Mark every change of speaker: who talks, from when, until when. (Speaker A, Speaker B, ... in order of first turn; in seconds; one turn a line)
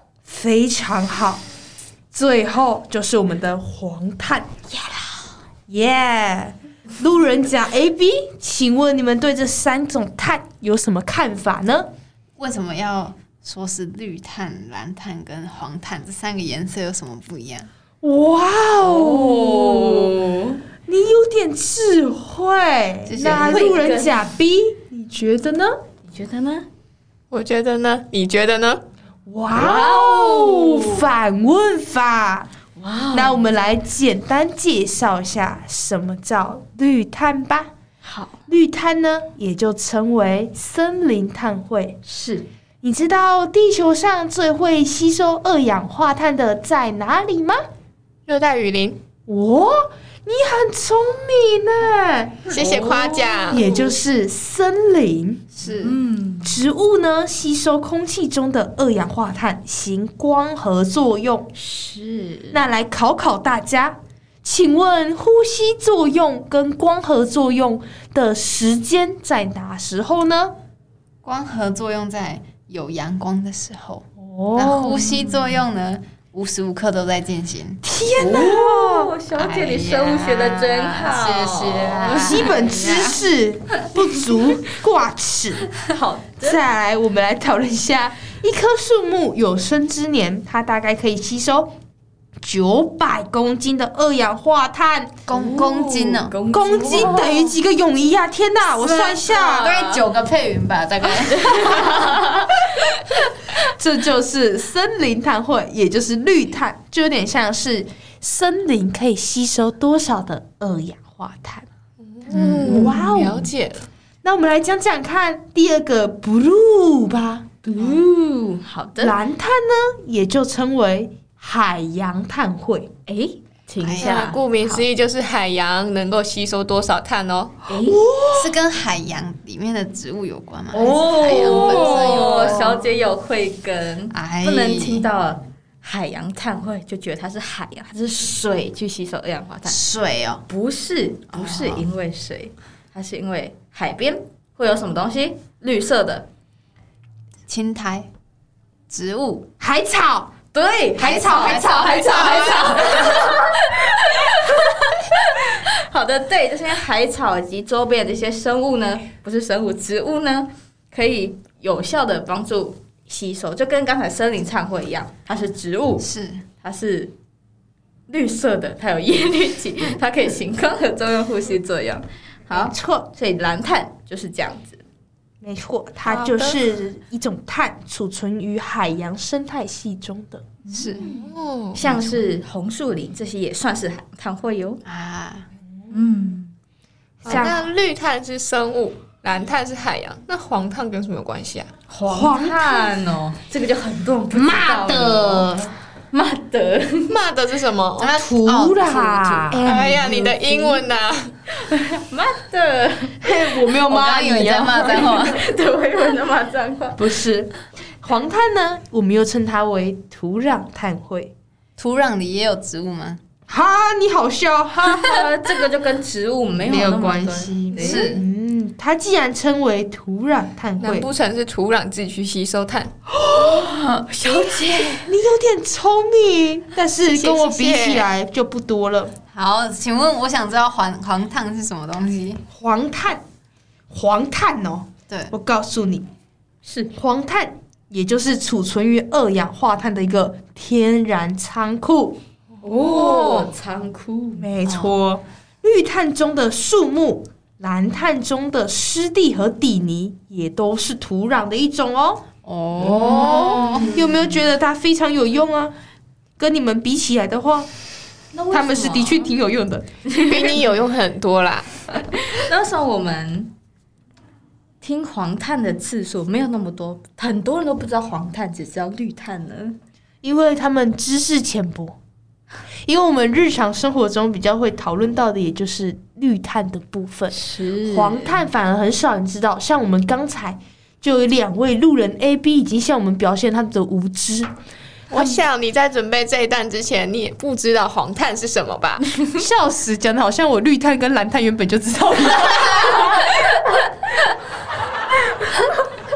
Speaker A: 0.2-1.4
Speaker A: 2.1-4.5
Speaker B: 4.7-5.3
Speaker A: 5.7-11.9
Speaker C: 12.4-17.7
Speaker A: 18.0-20.1
Speaker B: 18.8-20.6
Speaker A: 20.9-25.7
Speaker C: 23.1-23.6
Speaker B: 23.4-24.1
Speaker B: 26.1-26.7
Speaker D: 27.3-28.8
Speaker A: 29.3-32.5
Speaker B: 29.6-31.0
Speaker B: 32.8-33.5
Speaker A: 33.1-37.7
Speaker B: 38.0-38.4
Speaker A: 38.5-42.0
Speaker B: 42.0-42.5
Speaker A: 42.8-47.6
Speaker D: 48.3-49.0
Speaker A: 49.3-52.5
Speaker D: 52.5-53.6
Speaker B: 52.5-53.6
Speaker A: 53.5-55.4
Speaker C: 55.5-56.0
Speaker B: 55.8-56.6
Speaker A: 56.4-61.5
Speaker B: 61.5-62.6
Speaker A: 62.5-70.5
Speaker C: 71.2-77.8
Speaker A: 74.2-75.0
Speaker A: 77.8-79.1
Speaker B: 78.2-82.3
Speaker C: 79.3-83.2
Speaker A: 82.0-85.7
Speaker B: 85.8-86.6
Speaker A: 86.4-91.7
Speaker A: 92.4-95.2
Speaker C: 95.3-96.3
Speaker B: 95.3-97.5
Speaker A: 96.5-99.8
Speaker C: 99.6-102.1
Speaker B: 101.2-102.3
Speaker A: 103.8-111.7
Speaker D: 112.0-113.9
Speaker A: 112.3-113.5
Speaker A: 114.2-117.5
Speaker B: 117.6-119.2
Speaker A: 119.0-122.9
Speaker B: 123.0-124.4
Speaker C: 123.8-124.2
Speaker D: 124.0-127.6
Speaker B: 127.7-128.0
Speaker A: 127.8-128.6
Speaker C: 128.3-132.7
Speaker B: 130.7-139.8
Speaker D: 131.5-132.5
Speaker C: 134.1-135.1
Speaker C: 139.6-140.4
Speaker B: 140.4-146.3
Speaker C: 141.3-141.9
Speaker C: 147.5-148.1
Speaker C: 148.9-149.5
Speaker A: 149.6-150.3
Speaker B: 150.5-153.9
Speaker A: 151.0-151.9
Speaker C: 151.0-153.2
Speaker B: 155.9-166.1
Speaker C: 166.0-166.4
Speaker B: 166.6-167.1
Speaker B: 168.1-174.8
Speaker A: 172.5-173.1
Speaker A: 175.4-180.4
Speaker D: 176.1-176.6
Speaker B: 180.7-181.1
Speaker C: 180.7-181.0
Speaker D: 181.1-181.8
Speaker B: 181.7-184.8
Speaker C: 184.8-185.5
Speaker B: 185.9-186.5
Speaker B: 187.2-187.6
Speaker D: 187.2-191.7
Speaker B: 191.9-195.5
Speaker A: 192.1-192.9
Speaker A: 194.3-195.7
Speaker B: 196.1-197.2
Speaker D: 197.1-198.1
Speaker C: 198.0-199.4
Speaker A: 198.1-199.7
Speaker B: 199.5-200.8
Speaker D: 199.6-201.3
Speaker B: 201.5-203.3
Speaker A: 203.2-205.1
Speaker C: 203.9-205.4
Speaker B: 204.8-207.0
Speaker A: 207.0-211.3
Speaker C: 211.8-213.2
Speaker A: 213.5-215.3
Speaker B: 214.9-218.1
Speaker A: 216.7-221.1
Speaker C: 216.7-218.2
Speaker D: 220.8-222.9
Speaker A: 223.3-223.7
Speaker B: 224.0-225.1
Speaker A: 224.8-229.1
Speaker D: 227.0-228.1
Speaker C: 229.3-232.4
Speaker A: 232.5-233.2
Speaker A: 233.9-236.1
Speaker B: 236.6-236.9
Speaker A: 236.9-242.2
Speaker B: 242.6-244.5
Speaker D: 242.8-243.5
Speaker A: 244.4-252.2
Speaker C: 244.6-245.0
Speaker C: 252.4-253.9
Speaker A: 252.8-255.7
Speaker A: 256.4-257.7
Speaker B: 258.3-259.3
Speaker A: 258.5-259.9
Speaker D: 260.2-261.7
Speaker B: 262.3-263.5
Speaker B: 264.8-269.8
Speaker A: 270.2-271.9
Speaker A: 272.9-284.5
Speaker B: 277.3-278.4
Speaker D: 285.1-289.2
Speaker A: 289.4-293.3